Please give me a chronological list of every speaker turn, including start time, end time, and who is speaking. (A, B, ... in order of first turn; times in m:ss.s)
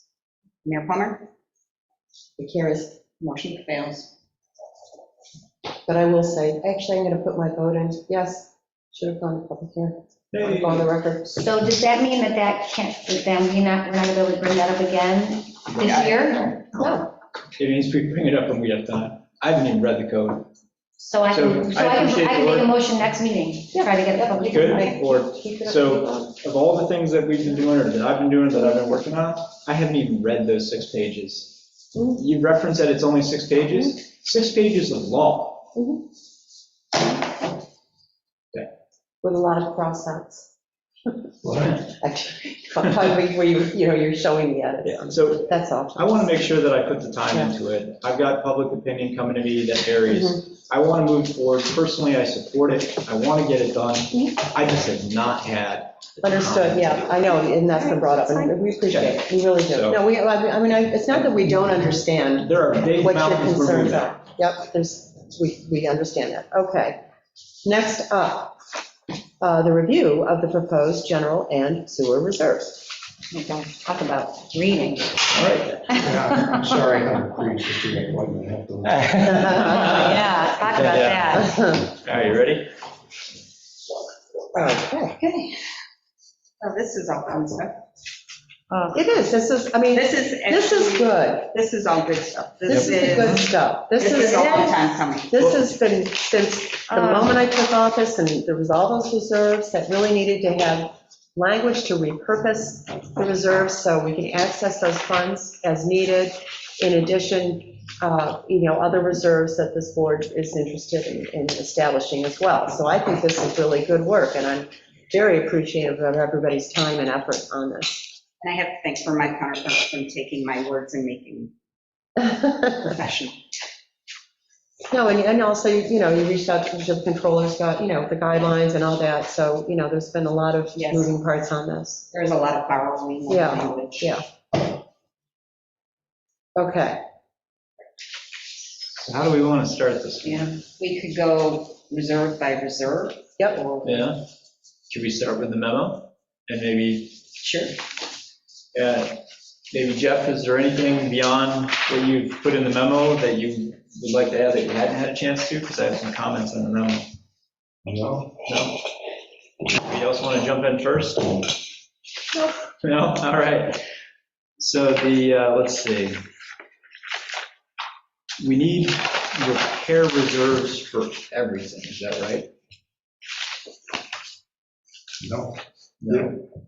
0:00.6-0:01.2 A
0:02.4-0:03.0 B
0:03.2-0:04.1 A
0:05.9-0:11.3 B
0:10.3-0:10.9 C
0:11.3-0:16.9 D
0:15.7-0:16.5 A
0:16.8-0:17.1 B
0:17.6-0:20.5 C
0:21.0-0:25.0 D
0:21.3-0:22.7 C
0:23.7-0:26.3 B
0:24.5-0:35.7 C
0:35.7-0:36.0 B
0:39.2-0:40.5 B
0:41.4-0:41.8 E
0:41.9-0:46.4 B
0:44.9-0:57.2 C
0:50.1-0:50.4 B
0:56.2-1:07.0 B
0:58.0-0:58.4 D
0:58.1-0:58.4 A
0:58.9-1:00.0 C
1:02.4-1:04.2 C
1:07.6-1:08.6 B
1:09.4-1:12.9 B
1:13.3-1:13.8 D
1:14.0-1:14.4 B
1:15.3-1:15.8 C
1:15.9-1:19.6 E
1:19.2-1:20.1 C
1:19.2-1:20.2 B
1:19.6-1:21.6 D
1:20.7-1:21.4 C
1:20.7-1:21.9 B
1:22.0-1:22.7 C
1:24.5-1:25.2 B
1:25.2-1:25.6 A
1:26.6-1:27.8 A
1:28.9-1:31.5 B
1:29.9-1:35.4 A
1:32.6-1:34.8 B
1:32.7-1:33.3 C
1:35.3-1:58.1 B
1:58.4-2:01.5 A
2:02.2-2:02.6 B
2:02.8-2:03.4 A
2:04.9-2:12.0 B
2:10.8-2:11.1 A
2:12.1-2:14.2 A
2:13.3-2:14.2 B
2:16.6-2:17.0 B
2:19.0-2:20.6 C
2:20.2-2:24.1 A
2:23.8-2:24.2 C
2:24.9-2:27.2 C
2:27.4-2:27.7 A
2:28.7-2:37.0 C
2:37.8-2:38.4 E
2:38.4-2:38.8 C
2:39.7-2:41.5 C
2:42.8-2:43.8 C
2:44.6-2:46.2 C
2:48.4-2:52.5 C
2:55.2-2:56.4 E
2:56.0-2:56.3 C